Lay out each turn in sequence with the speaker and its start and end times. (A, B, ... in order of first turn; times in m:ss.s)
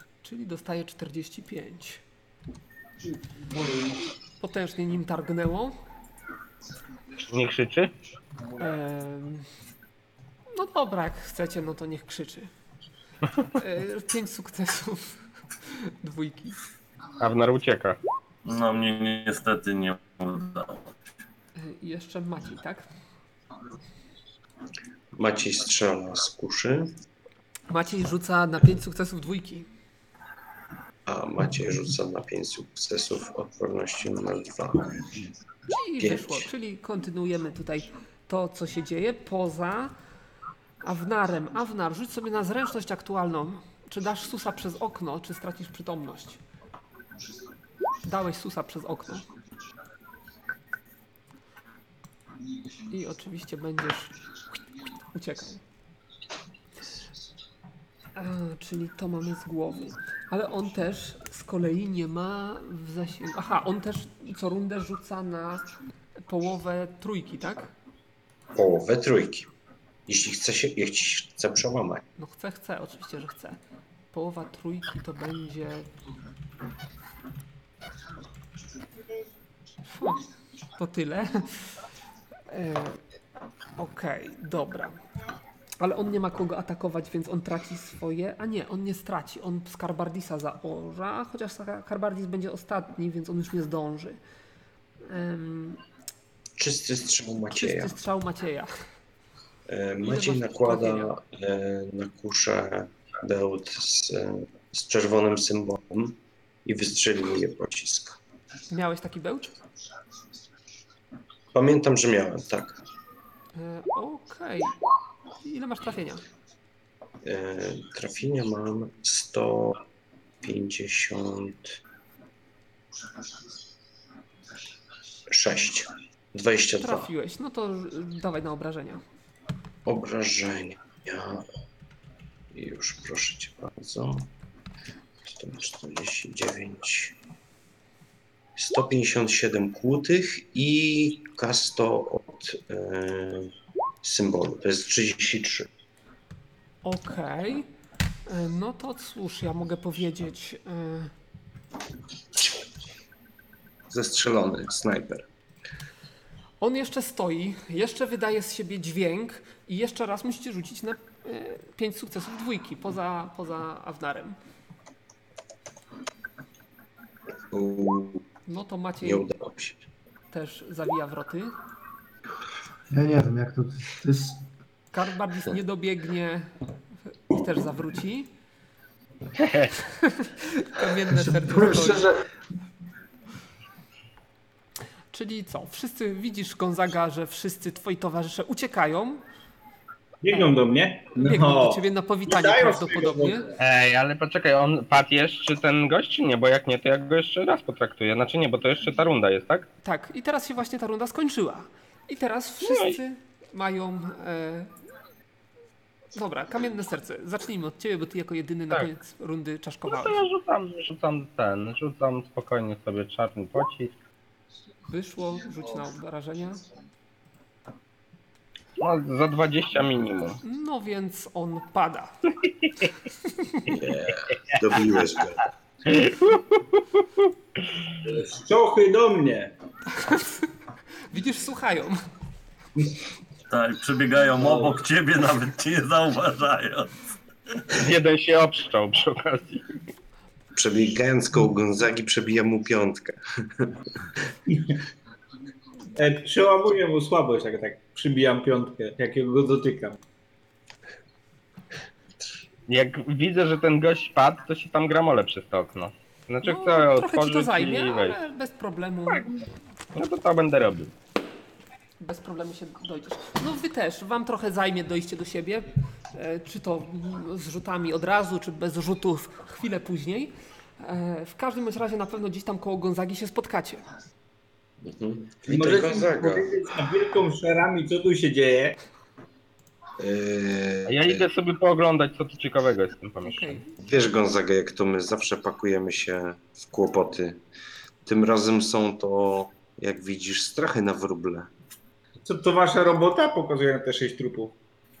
0:00.2-0:02.0 A
0:04.4-0:05.8 A
0:07.2-0:07.9 B
0:08.6-0:09.5 A
0:10.5-0:12.5 A
0:13.5-0:15.1 A
0:15.6-0:16.6 A
0:17.2-0:18.0 B
0:18.4-0:20.9 C
0:21.6-0:22.8 A
0:25.1-0:26.9 D
0:27.7-0:29.7 A
0:31.0-0:35.2 D
0:35.7-0:39.9 A
0:36.0-0:36.5 D
0:40.8-0:46.4 A
0:48.0-0:49.2 A
0:52.9-0:55.6 A
0:58.1-1:05.6 A
1:06.2-1:07.7 A
1:08.5-1:09.5 D
1:10.1-1:12.0 D
1:12.2-1:13.6 A
1:14.1-1:15.9 A
1:19.9-1:21.7 A
1:22.5-1:23.0 A
1:23.8-1:25.0 A
1:25.8-1:34.2 A
1:35.0-1:35.8 A
1:36.6-1:37.9 D
1:37.5-1:38.7 A
1:39.7-1:48.2 D
1:40.0-1:41.1 A
1:48.7-1:49.5 A
1:51.5-1:52.8 D
1:53.5-1:54.8 A
1:55.4-1:56.2 A
1:57.2-1:59.8 D
2:00.4-2:01.8 D
2:05.3-2:07.1 D
2:06.8-2:09.0 A
2:09.8-2:11.4 D
2:12.5-2:14.3 D
2:15.2-2:17.2 D
2:18.6-2:25.7 D
2:26.8-2:27.7 A
2:28.2-2:31.1 A
2:33.9-2:35.2 D
2:36.6-2:44.4 A
2:47.5-2:48.2 D
2:48.5-2:49.3 A
2:49.0-2:49.8 D
2:50.3-2:51.5 A
2:52.9-2:54.4 E
2:54.9-2:56.5 A
2:57.3-2:58.3 A
2:59.4-2:59.7 B
2:59.8-3:02.1 A
3:01.1-3:02.2 E
3:05.1-3:09.2 A
3:10.2-3:13.6 F
3:11.2-3:13.4 A
3:13.6-3:19.6 B
3:19.8-3:24.7 A
3:22.6-3:23.0 B
3:26.1-3:30.2 A
3:29.9-3:33.9 B
3:34.9-3:36.6 A
3:38.8-3:40.4 B
3:40.4-3:42.3 A
3:43.2-3:43.7 A
3:43.6-3:45.5 D
3:45.9-3:47.3 B
3:48.0-3:49.5 F
3:49.9-3:50.5 A
3:51.1-3:52.0 A
3:53.5-3:56.9 C
3:57.7-3:59.8 B
4:00.5-4:03.8 D
4:04.5-4:04.7 F
4:05.9-4:10.0 F
4:12.7-4:18.2 B
4:16.4-4:19.3 A
4:19.1-4:19.4 B
4:19.9-4:20.9 B
4:22.0-4:33.8 A
4:34.8-4:36.5 D
4:35.4-4:38.8 F
4:40.0-4:41.2 D
4:40.9-4:43.6 B
4:43.2-4:43.7 A
4:43.8-4:47.4 D
4:48.0-4:51.5 D
4:52.2-4:54.5 F